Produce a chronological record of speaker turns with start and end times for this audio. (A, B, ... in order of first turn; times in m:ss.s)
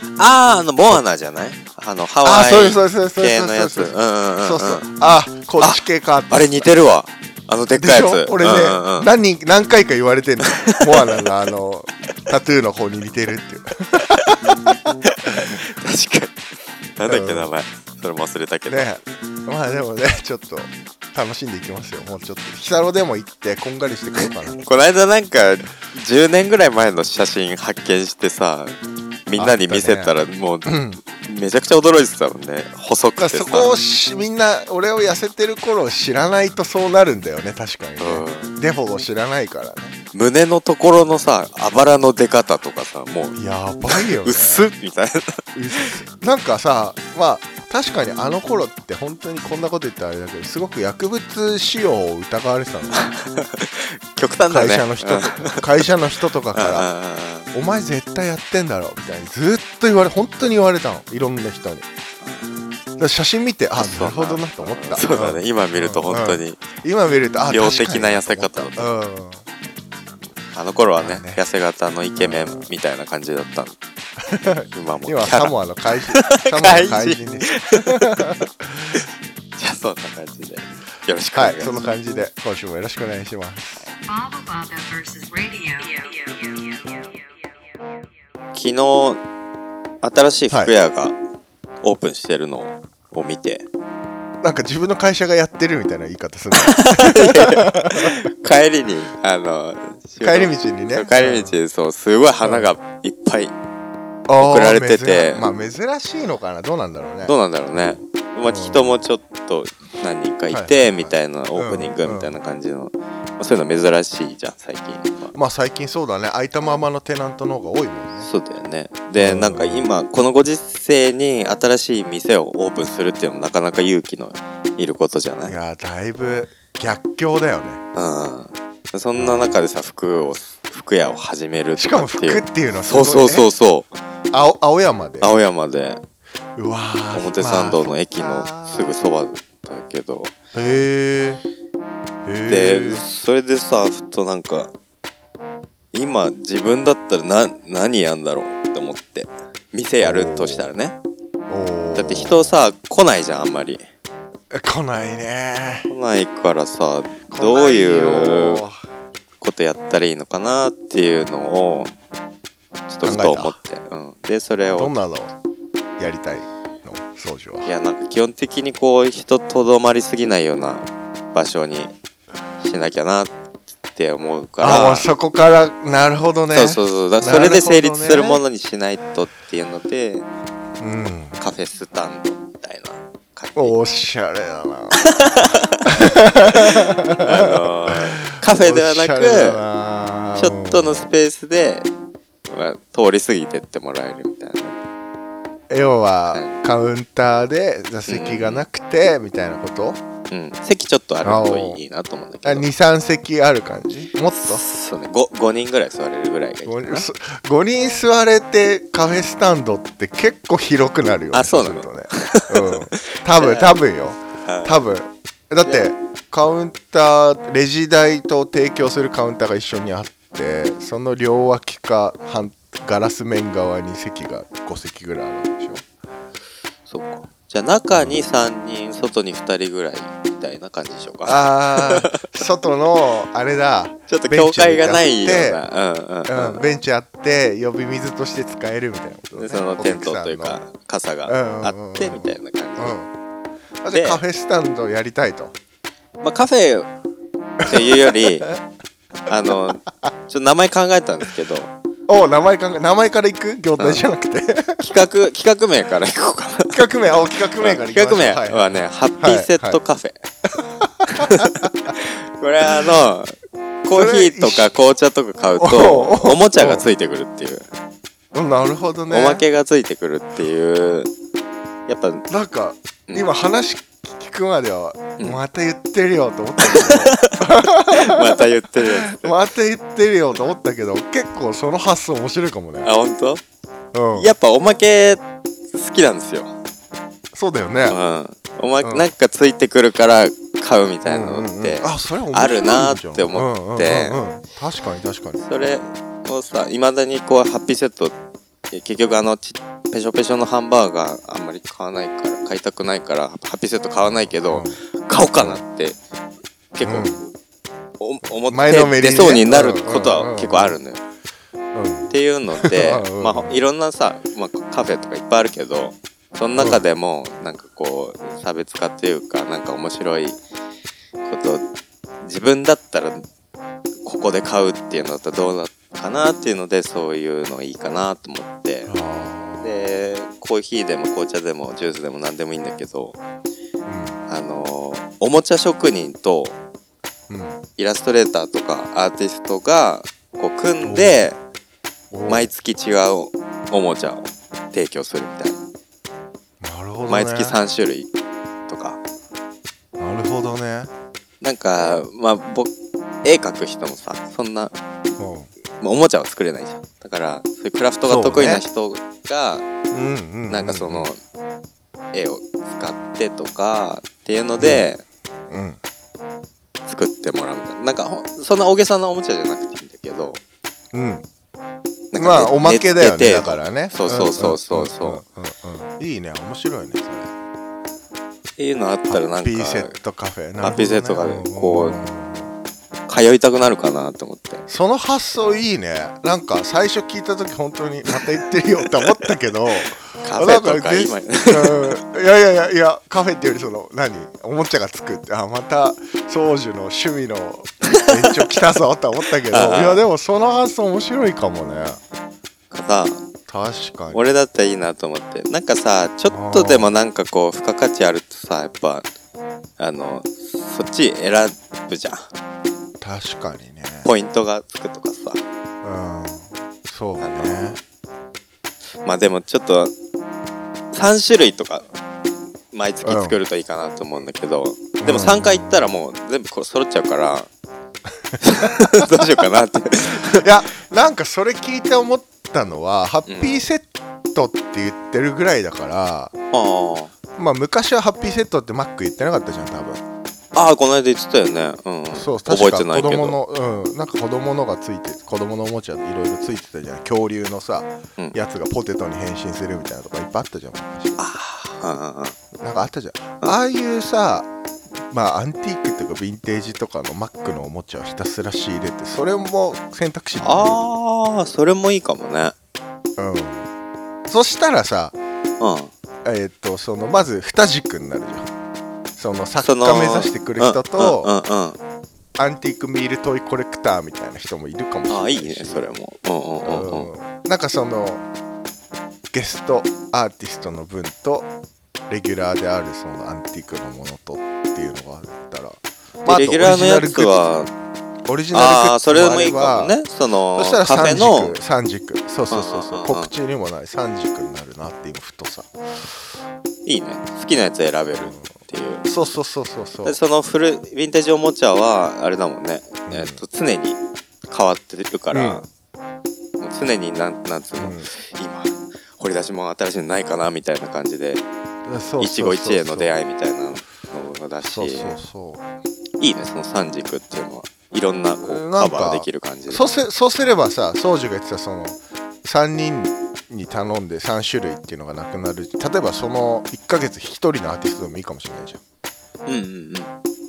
0:00.2-0:04.9 A
0:02.2-0:06.7 B
0:05.6-0:09.1 A
0:07.8-0:15.6 B
0:10.5-0:10.8 A
0:14.2-0:16.4 A
0:17.0-0:19.0 A
0:17.1-0:17.5 B
0:18.7-0:24.6 B
0:24.6-0:33.8 A
0:29.4-0:30.1 B
0:30.7-0:31.0 B
0:33.2-0:40.0 B
0:38.0-0:38.6 A
0:40.1-0:45.9 A
0:43.4-0:44.7 B
0:45.6-0:53.0 B
0:52.9-0:55.7 A
0:54.5-0:56.9 B
0:56.5-0:57.5 A
0:57.5-1:01.9 B
1:02.2-1:02.5 A
1:03.0-1:09.4 B
1:03.8-1:06.6 A
1:07.4-1:09.0 A
1:10.5-1:13.8 A
1:11.0-1:11.4 B
1:12.2-1:12.7 B
1:14.3-1:19.0 B
1:14.7-1:19.0 A
1:19.6-1:21.8 A
1:21.4-1:23.9 B
1:24.0-1:27.1 C
1:28.6-1:29.2 A
1:30.0-1:31.2 A
1:31.8-1:33.7 A
1:34.4-1:38.2 B
1:36.6-1:43.6 A
1:40.2-1:41.6 B
1:42.4-1:42.7 B
1:44.3-1:47.4 B
1:44.4-1:45.5 A
1:47.3-1:55.4 A
1:48.5-1:49.0 B
1:50.5-1:52.4 B
1:55.3-1:58.3 B
1:58.2-2:05.6 A
1:59.2-1:59.9 B
2:05.4-2:07.8 B
2:08.0-2:13.9 A
2:09.2-2:09.5 B
2:11.8-2:13.5 B
2:14.3-2:15.4 B
2:15.2-2:16.0 A
2:16.6-2:18.9 B
2:17.1-2:20.3 A
2:20.5-2:21.4 B
2:22.3-2:23.0 B
2:22.5-2:24.7 A
2:25.9-2:31.0 A
2:30.0-2:30.7 B
2:31.5-2:32.6 B
2:32.0-2:33.9 A
2:34.5-2:35.9 B
2:35.9-2:38.6 A
2:37.3-2:38.8 B
2:39.4-2:41.9 A
2:42.9-2:44.9 A
2:43.0-2:43.6 B
2:44.8-2:45.3 B
2:46.0-2:47.7 B
2:47.6-2:51.9 A
2:52.6-2:53.4 A
2:53.9-2:55.1 A
2:54.6-2:58.4 B
2:56.5-3:00.3 A
3:00.8-3:01.4 B
3:01.4-3:03.8 A
3:03.6-3:05.1 B
3:05.0-3:05.9 A
3:05.9-3:11.1 B
3:06.5-3:09.6 A
3:10.4-3:11.9 A
3:12.5-3:14.8 A
3:15.7-3:20.0 B
3:16.3-3:16.6 A
3:18.1-3:18.6 A
3:20.3-3:22.7 A
3:21.2-3:21.8 B
3:22.4-3:24.6 B
3:24.4-3:27.1 A
3:26.7-3:45.8 B
3:31.3-3:33.8 A
3:34.4-3:34.8 A
3:46.9-3:52.4 A
3:47.9-3:48.2 B
3:51.2-3:55.6 B
3:54.1-3:56.6 A
3:56.3-4:00.6 B
3:59.4-4:03.0 A
4:01.3-4:03.1 B
4:03.8-4:05.6 B
4:03.9-4:04.2 A
4:06.2-4:06.9 A
4:07.6-4:08.6 B
4:07.6-4:08.5 A
4:09.3-4:11.7 A
4:12.1-4:14.9 B
4:14.8-4:16.8 A
4:16.7-4:19.8 B
4:17.6-4:20.2 A
4:20.6-4:21.7 B
4:21.1-4:27.7 A
4:23.9-4:24.7 B
4:25.6-4:26.8 B
4:28.3-4:29.4 B
4:29.1-4:31.1 A
4:31.9-4:32.3 A
4:32.3-4:38.4 B
4:36.6-4:39.4 A
4:39.0-4:42.9 B
4:42.8-4:43.4 A
4:43.9-4:44.3 B
4:44.2-4:46.5 A
4:47.3-4:48.0 B
4:47.9-4:54.2 A
4:48.8-4:49.1 B
4:51.0-4:55.4 B
4:55.4-4:58.1 A
4:58.7-5:06.0 A
5:04.0-5:04.8 B
5:05.4-5:05.6 B
5:06.7-5:07.3 A
5:06.8-5:07.2 B
5:08.0-5:11.0 A
5:08.5-5:10.8 B
5:11.7-5:13.6 B
5:12.1-5:20.4 A
5:16.6-5:16.8 B
5:21.2-5:21.6 A
5:22.2-5:23.3 A
5:24.0-5:28.9 A
5:28.9-5:29.7 B
5:29.6-5:33.2 A
5:33.9-5:34.2 B
5:34.3-5:36.6 A
5:37.3-5:37.6 B
5:37.8-5:41.4 A
5:40.8-5:41.3 B
5:42.1-5:42.5 B
5:42.3-5:45.6 A
5:46.6-5:47.6 B
5:47.1-5:48.1 A
5:48.7-5:49.0 A
5:50.0-5:50.9 B
5:51.4-5:52.7 A
5:53.2-5:54.8 A
5:55.2-5:55.5 B
5:55.8-5:59.7 A
5:58.0-5:58.6 B
5:59.9-6:01.1 B
6:00.5-6:01.2 A
6:02.1-6:05.0 A
6:04.6-6:04.9 B
6:05.5-6:05.8 B
6:06.9-6:10.4 A
6:10.9-6:11.2 B
6:12.1-6:15.2 A
6:12.2-6:17.3 B
6:18.6-6:19.9 A
6:19.1-6:22.5 B
6:20.6-6:22.0 A
6:23.1-6:24.6 A
6:24.7-6:42.0 B
6:30.2-6:32.0 A
6:37.9-6:38.3 A
6:39.5-6:40.0 A
6:42.7-6:43.2 A
6:43.5-6:44.2 B
6:44.1-6:49.1 A
6:46.3-6:47.0 B
6:49.8-6:52.3 A
6:53.0-6:54.1 B
6:54.0-6:55.4 A
6:55.8-6:57.8 B
6:57.2-6:57.8 A
6:59.0-6:59.9 A
7:00.9-7:01.9 A
7:02.7-7:07.5 A
7:03.0-7:03.4 B
7:05.0-7:05.9 B
7:08.4-7:10.5 A
7:08.6-7:09.2 B
7:10.3-7:16.3 B
7:13.3-7:13.6 A
7:16.5-7:17.1 A
7:17.4-7:20.0 B
7:20.5-7:23.4 A
7:22.1-7:31.2 B
7:31.2-7:32.4 A
7:32.6-7:34.5 B
7:35.1-7:40.8 B
7:40.4-7:42.5 A
7:43.2-7:43.7 B
7:44.3-7:45.2 B
7:45.6-7:45.9 A
7:46.2-7:48.5 B
7:49.2-7:51.3 B
7:49.6-7:51.8 A
7:52.4-7:55.9 B
7:55.1-7:57.1 A
7:56.6-7:58.2 B
7:59.3-8:01.5 B
8:02.1-8:07.5 B
8:06.3-8:07.7 A
8:08.3-8:10.0 B
8:08.5-8:11.6 A
8:10.6-8:15.7 B
8:12.5-8:13.3 A
8:16.9-8:19.0 A
8:19.0-8:20.2 B
8:20.0-8:24.0 A
8:23.1-8:23.4 B
8:24.5-8:25.7 A
8:25.3-8:25.6 B
8:26.6-8:31.4 A
8:27.8-8:28.1 B
8:31.9-8:33.2 B
8:32.2-8:35.2 A
8:34.6-8:35.6 B
8:36.2-8:39.8 A
8:38.4-8:48.8 B
8:49.5-8:50.1 A